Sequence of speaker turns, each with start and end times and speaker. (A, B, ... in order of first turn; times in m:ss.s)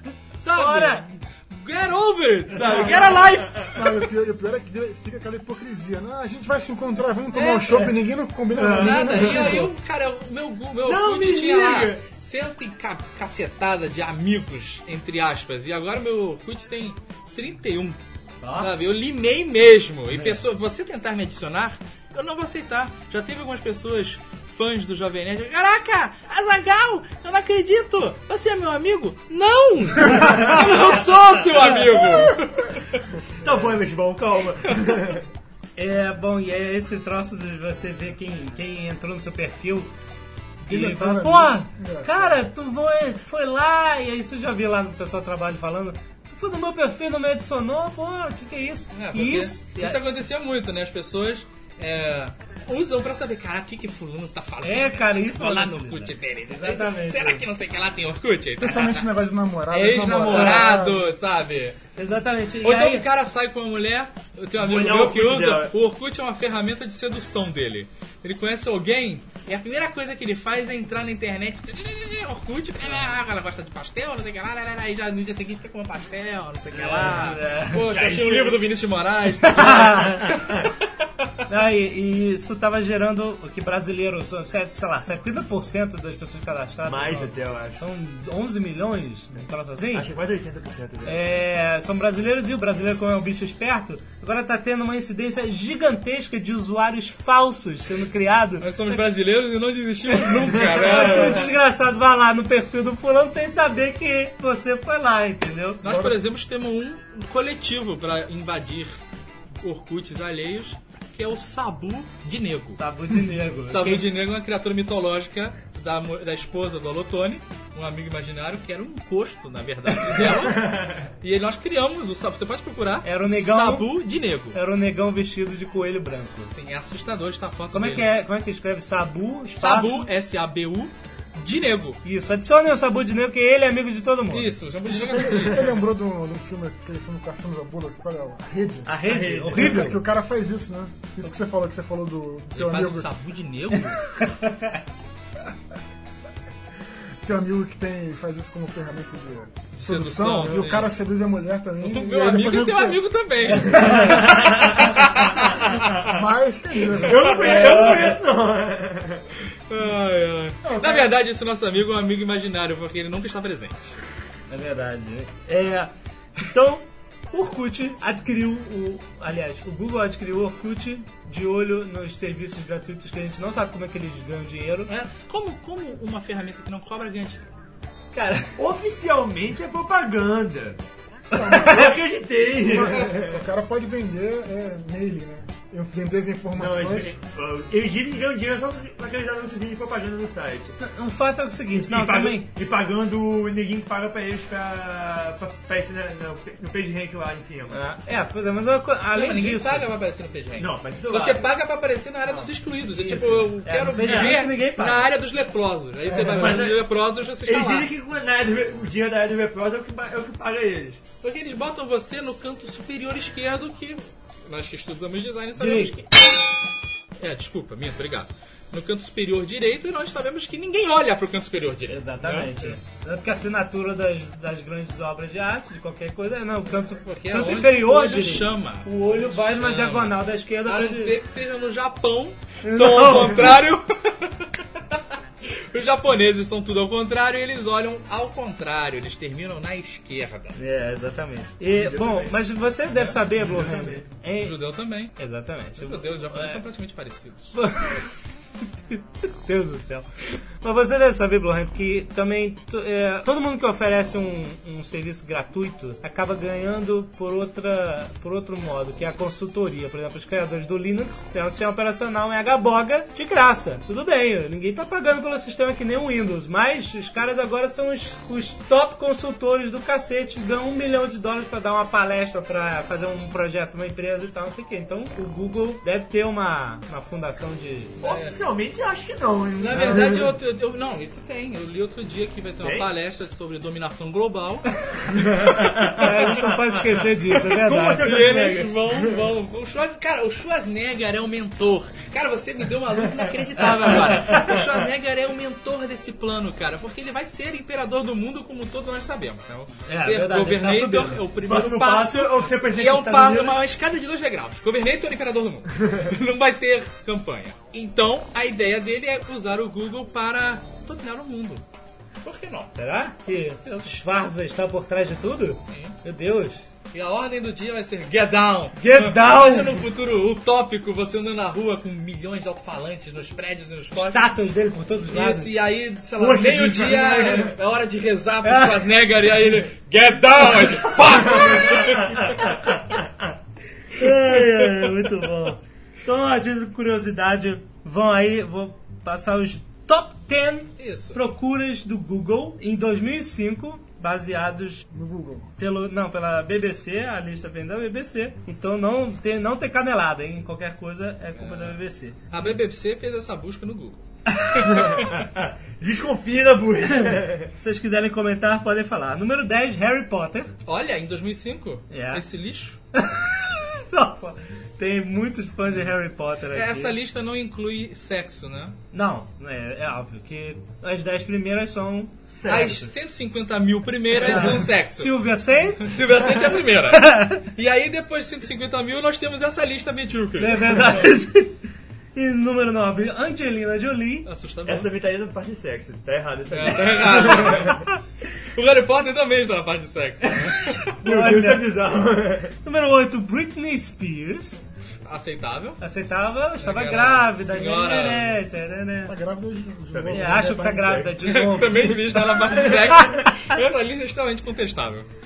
0:00.4-0:04.1 A
0:00.5-0:01.1 B
0:02.6-0:09.7 C
0:07.4-0:07.6 B
0:08.5-0:09.7 D
0:08.8-0:18.0 A
0:10.8-0:12.0 D
0:18.4-0:18.7 B
0:18.6-0:33.0 A
0:20.1-0:20.4 B
0:33.4-0:35.3 D
0:35.8-0:39.9 B
0:40.6-0:50.0 B
0:40.7-0:42.4 C
0:48.9-0:59.1 A
0:54.6-0:57.4 B
0:58.6-1:01.1 C
0:59.7-1:01.8 A
1:00.3-1:00.7 B
1:02.0-1:03.0 B
1:02.6-1:20.4 A
1:04.6-1:05.7 D
1:16.7-1:17.9 B
1:17.9-1:18.6 D
1:19.4-1:20.4 B
1:20.3-1:20.7 D
1:21.5-1:30.1 B
1:26.8-1:27.8 D
1:29.9-1:31.4 D
1:31.0-1:39.0 B
1:38.6-1:41.5 A
1:40.1-1:45.8 B
1:40.4-1:41.5 D
1:45.8-1:49.0 A
1:49.6-1:52.8 A
1:52.8-1:54.1 B
1:53.7-2:00.7 A
2:00.1-2:01.1 D
2:01.2-2:04.6 A
2:03.0-2:03.9 B
2:04.5-2:06.5 B
2:06.5-2:08.1 A
2:07.7-2:10.1 B
2:09.5-2:12.0 A
2:12.0-2:14.6 B
2:14.3-2:15.8 A
2:14.9-2:23.1 C
2:18.8-2:20.0 B
2:19.0-2:19.9 D
2:22.5-2:24.0 A
2:24.0-2:24.8 B
2:27.2-2:33.0 C
2:29.8-2:30.9 A
2:31.8-2:35.7 A
2:33.4-2:34.7 B
2:34.1-2:34.8 D
2:35.7-2:36.1 D
2:35.9-2:37.6 C
2:37.0-2:39.2 D
2:37.3-2:37.8 A
2:37.4-2:38.2 B
2:39.7-2:43.9 A
2:40.7-2:41.0 C
2:44.5-2:54.9 B
2:54.9-2:57.4 A
2:58.1-2:58.6 B
2:58.6-3:00.8 D
3:01.3-3:02.0 C
3:01.5-3:03.4 D
3:02.6-3:07.1 C
3:06.6-3:10.8 D
3:10.8-3:12.5 B
3:11.8-3:17.8 D
3:17.7-3:19.9 B
3:19.1-3:27.9 A
3:20.6-3:21.5 D
3:22.9-3:25.1 B
3:24.0-3:24.4 D
3:26.1-3:26.8 D
3:27.4-3:31.0 D
3:31.2-3:36.1 A
3:35.6-3:36.0 B
3:37.2-3:42.7 A
3:41.9-3:51.2 B
3:46.9-4:00.6 A
3:52.6-3:53.6 B
4:00.5-4:04.6 B
4:01.7-4:02.4 D
4:03.4-4:04.0 D
4:04.4-4:05.1 A
4:05.2-4:06.6 B
4:05.8-4:07.6 A
4:07.5-4:08.1 B
4:08.9-4:10.1 B
4:10.6-4:38.0 B
4:38.0-4:40.3 D
4:38.0-4:38.4 A
4:39.6-4:44.7 A
4:39.7-4:40.0 B
4:42.6-4:42.9 D
4:45.0-4:46.7 D
4:45.8-4:48.3 B
4:47.3-4:49.2 D
4:47.9-5:11.6 A
4:53.9-4:54.6 D
4:59.9-5:01.2 B
5:01.4-5:03.6 D
5:12.2-5:12.7 A
5:12.7-5:16.6 B
5:13.6-5:13.9 A
5:15.7-5:16.0 A
5:16.9-5:24.3 A
5:18.8-5:19.8 B
5:24.0-5:25.5 B
5:25.1-5:32.6 A
5:26.2-5:27.5 D
5:28.4-5:28.8 B
5:32.0-5:32.3 D
5:33.9-5:44.8 B
5:40.8-5:41.2 A
5:44.9-5:45.5 C
5:45.6-5:52.2 B
5:51.4-5:51.8 A
5:52.3-5:54.0 A
5:54.3-5:54.8 B
5:54.6-5:57.5 D
5:54.7-5:55.2 A
5:57.0-6:00.5 B
6:00.6-6:02.8 A
6:01.9-6:02.2 B
6:02.9-6:06.9 B
6:06.5-6:08.8 A
6:08.9-6:12.9 B
6:12.4-6:12.9 D
6:12.4-6:15.1 A
6:14.1-6:16.0 B
6:15.8-6:21.1 A
6:16.8-6:17.4 B
6:20.4-6:21.6 B
6:22.1-6:24.3 B
6:24.2-6:24.9 A
6:24.6-6:27.8 D
6:26.5-6:27.9 A
6:28.5-6:30.8 A
6:30.2-6:31.8 B
6:31.0-6:32.5 D
6:32.6-6:34.6 B
6:35.0-6:35.8 A
6:35.8-6:39.2 B
6:36.6-6:38.4 A
6:39.0-6:40.7 C
6:39.9-6:41.2 D
6:40.1-6:43.3 B
6:41.2-6:45.1 A